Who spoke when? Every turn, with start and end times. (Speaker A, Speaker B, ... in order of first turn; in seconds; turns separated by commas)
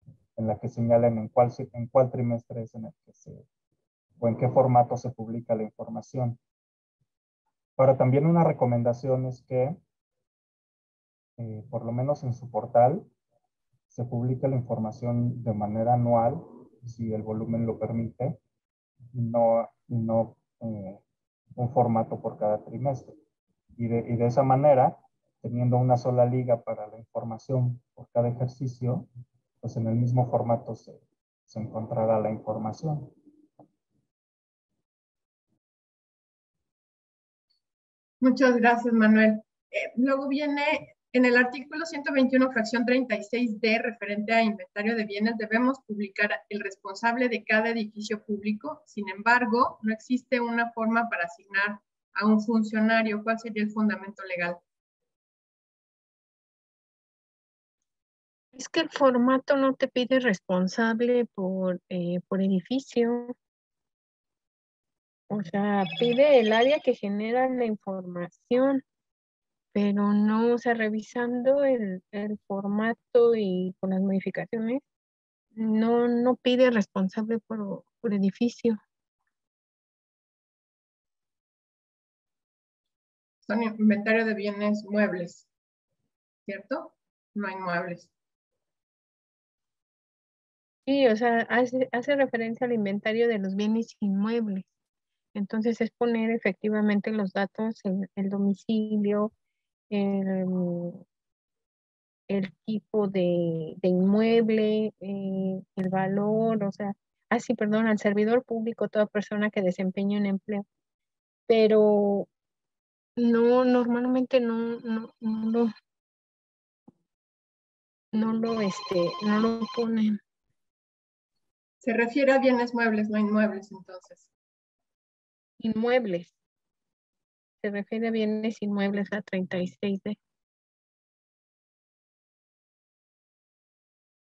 Speaker A: 0.4-3.5, Speaker A: 4.2-6.4, Speaker A: 7.8-9.8, Speaker A: 11.4-13.1, Speaker A: 13.9-18.4, Speaker A: 19.1-21.0, Speaker A: 21.6-23.2, Speaker A: 23.8-29.1, Speaker A: 29.6-33.2, Speaker B: 38.2-54.6, Speaker C: 58.5-63.4, Speaker C: 65.3-68.8, Speaker C: 69.7-74.8, Speaker C: 75.6-78.8, Speaker B: 83.5-85.5, Speaker B: 86.5-88.1, Speaker C: 90.9-94.7, Speaker C: 95.3-99.3, Speaker C: 99.9-101.0, Speaker C: 102.3-110.7, Speaker C: 111.5-112.3, Speaker C: 113.2-115.7, Speaker C: 118.1-120.2, Speaker B: 121.8-124.3, Speaker C: 125.6-126.3, Speaker C: 127.6-130.2